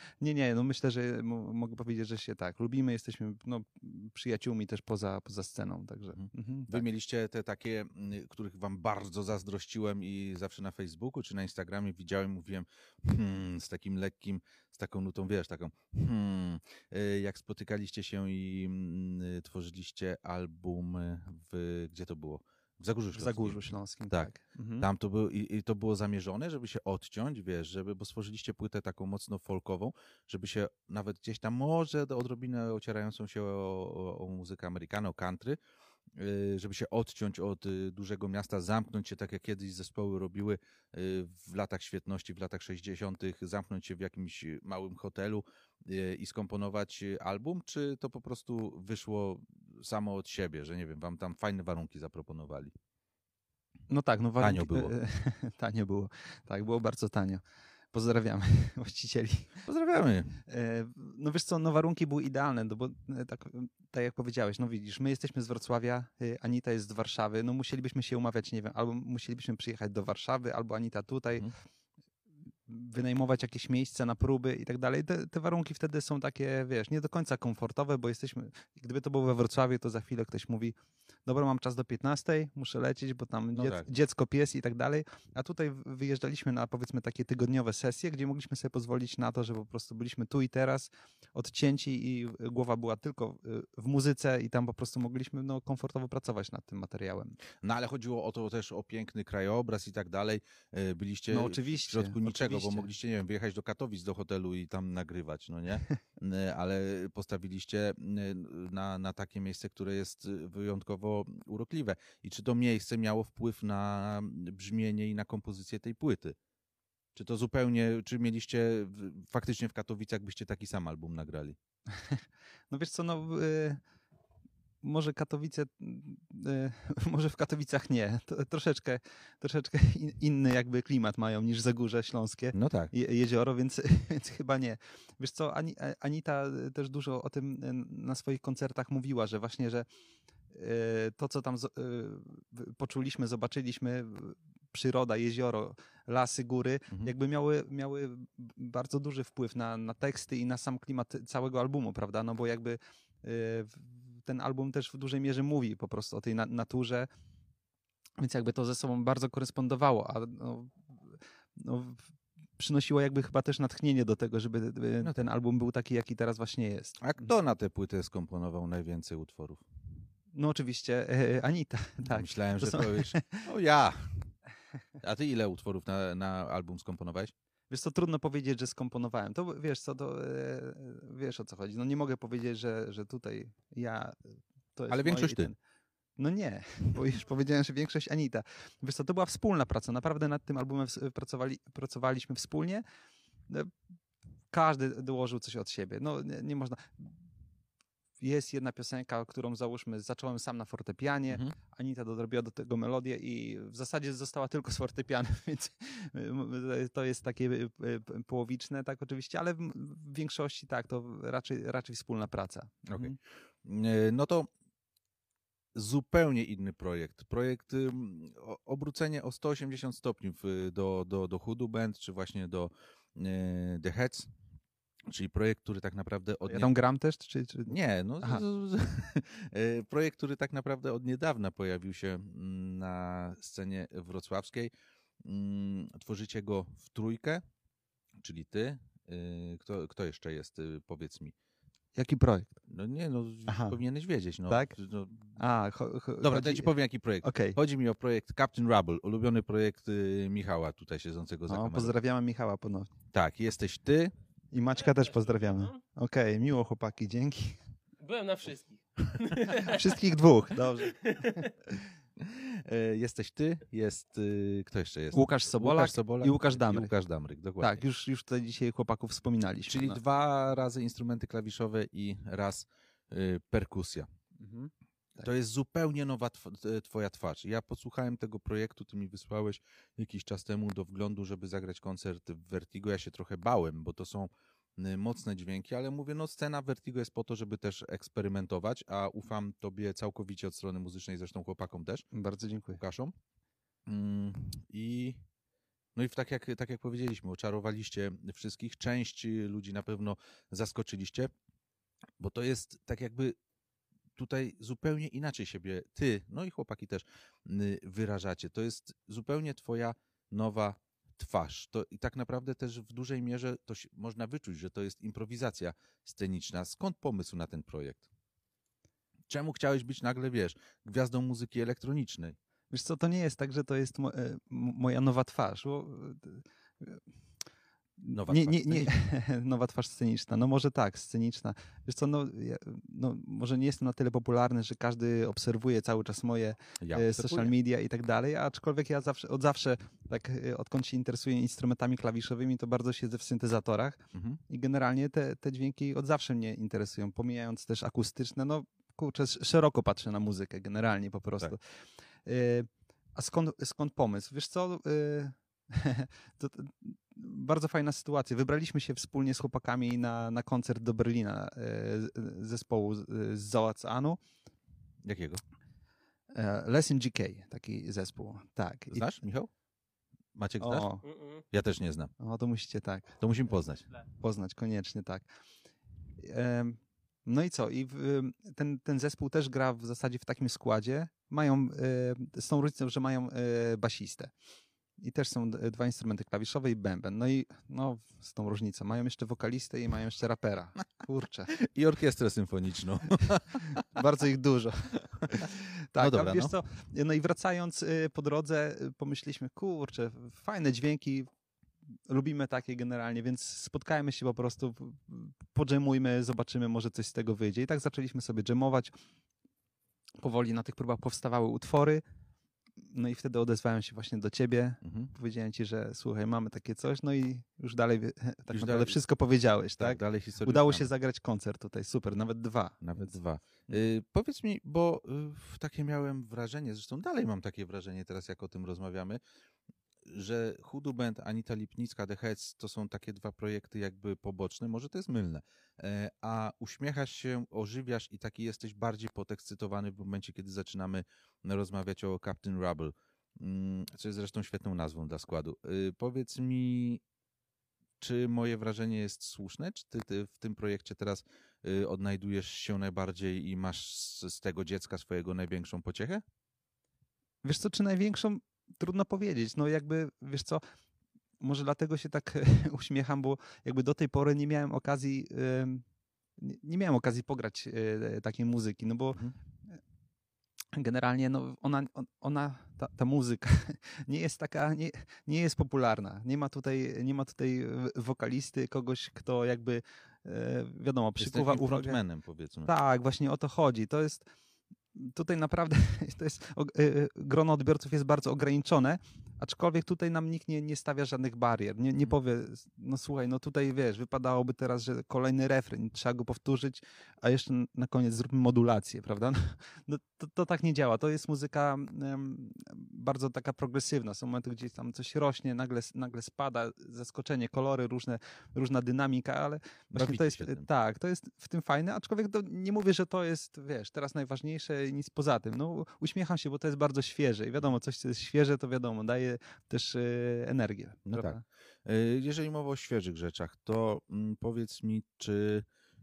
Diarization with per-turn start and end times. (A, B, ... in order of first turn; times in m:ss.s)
0:00.2-0:06.8 A
0:06.2-0:35.6 B
0:23.1-0:24.9 A
0:36.2-0:52.7 B
0:53.9-0:57.4 A
0:54.4-0:54.9 B
0:57.9-0:59.5 A
0:59.6-1:00.4 B
1:00.5-1:11.5 A
1:12.7-1:20.7 A
1:21.2-1:37.4 A
1:23.5-1:23.9 B
1:37.6-1:56.4 B
1:41.3-1:42.9 A
1:57.1-2:01.6 B
2:01.9-2:03.8 A
2:04.8-2:19.8 A
2:12.5-2:12.9 B
2:20.5-2:37.1 A
2:38.2-2:42.0 A
2:42.6-2:47.3 A
2:47.0-2:49.6 B
2:50.3-2:53.4 A
2:52.1-2:54.3 B
2:55.0-2:57.3 B
2:57.7-3:05.5 A
3:04.9-3:05.5 B
3:06.2-3:12.8 A
3:13.5-3:13.7 A
3:14.5-3:17.2 A
3:18.2-3:33.2 A
3:21.3-3:21.6 B
3:32.8-3:34.5 B
3:35.7-3:44.3 B
3:45.1-3:46.7 B
3:46.5-3:48.4 A
3:47.7-3:54.7 B
3:55.2-3:57.4 B
3:58.2-4:01.3 B
4:01.9-4:02.5 A
4:02.7-4:05.4 B
4:03.5-4:03.8 A
4:04.5-4:04.7 A
4:05.4-4:06.7 A
4:06.2-4:11.9 B
4:07.2-4:07.6 A
4:11.5-4:12.9 A
4:13.1-4:14.1 B
4:14.5-4:17.6 A
4:18.0-4:19.9 C
4:19.4-4:21.8 A
4:20.8-4:21.5 C
4:22.2-4:27.8 B
4:25.1-4:26.9 A
4:27.6-4:30.0 A
4:29.7-4:34.1 B
4:34.4-4:34.7 A
4:35.2-4:52.0 B
4:52.1-4:52.8 A
4:52.8-4:53.1 B
4:53.9-4:55.2 B
4:55.9-5:01.3 B
5:02.2-5:03.4 B
5:04.2-5:18.1 B
5:19.3-5:22.4 B
5:22.7-5:27.0 A
5:28.0-5:51.6 A
5:28.1-5:28.9 B
5:36.8-5:37.5 B
5:44.1-5:44.4 B
5:52.2-6:04.2 A
6:05.0-6:05.4 B
6:06.3-6:09.0 A
6:08.9-6:09.5 B
6:10.4-6:10.9 B
6:10.6-6:11.0 A
6:11.0-6:11.4 C
6:11.5-6:12.1 B
6:12.2-6:13.2 A
6:13.2-6:13.8 B
6:14.2-6:15.2 A
6:16.2-6:24.3 A
6:25.0-6:31.5 A
6:31.5-6:33.8 B
6:33.8-6:41.3 A
6:35.2-6:36.5 B
6:41.9-6:48.9 A
6:50.2-6:52.0 A
6:52.8-7:03.1 A
6:54.8-6:55.1 B
6:58.5-6:59.0 B
6:59.8-7:00.9 B
7:02.8-7:09.2 B
7:10.0-7:27.0 B
7:28.0-7:36.2 B
7:37.4-7:40.6 A
7:41.4-7:45.8 A
7:46.4-7:49.2 A
7:50.7-8:02.0 A
8:01.2-8:02.7 B
8:02.6-8:04.3 A
8:04.9-8:41.4 A
8:29.9-8:30.7 B
8:41.0-8:45.6 B